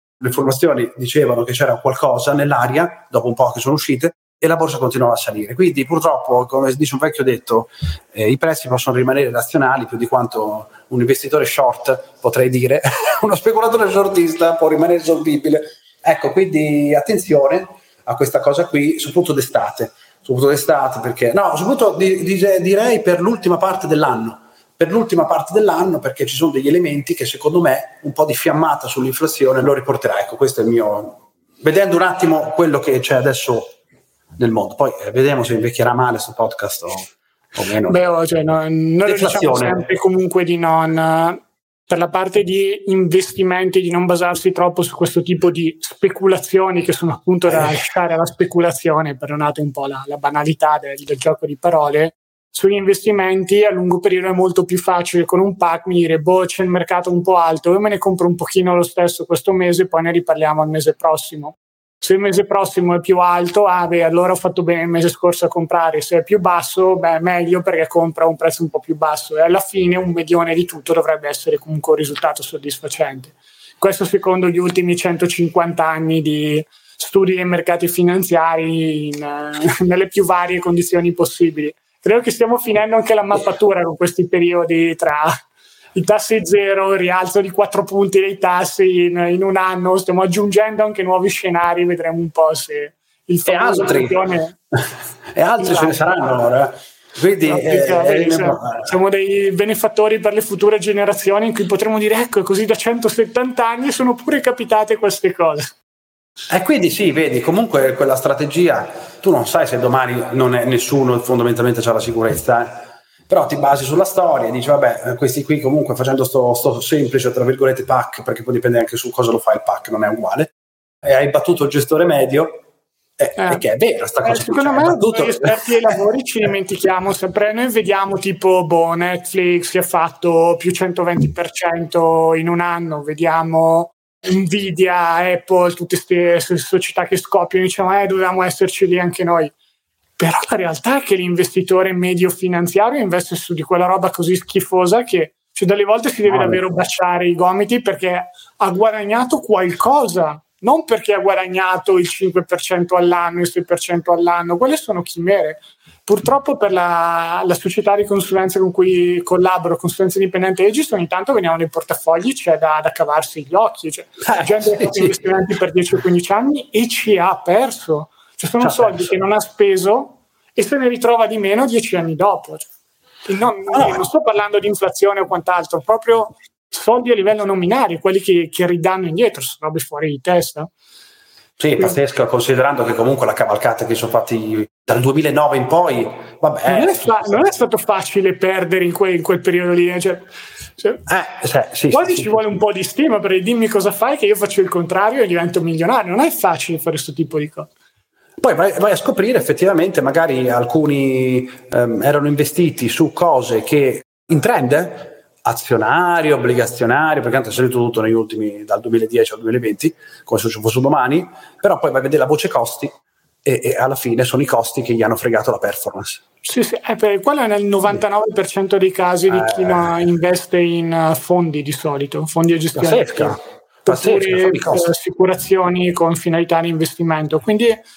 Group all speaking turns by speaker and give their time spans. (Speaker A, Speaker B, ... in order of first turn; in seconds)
Speaker A: 0.2-33.7, 34.4-38.0, 39.0-39.8, 47.5-47.7, 93.5-94.2, 95.3-98.9, 106.5-122.6, 123.2-125.9, 146.3-146.6, 164.2-165.2, 168.6-169.2, 173.7-174.0, 181.6-187.5, 191.1-192.4, 198.4-216.2, 219.3-220.0, 222.7-224.9
Speaker B: 37.8-85.4, 85.9-94.6, 95.6-96.0, 97.4-105.8, 123.4-123.6, 124.2-139.5, 140.2-172.7, 173.2-180.7, 186.7-190.3, 190.8-191.0, 191.9-197.7, 216.4-227.8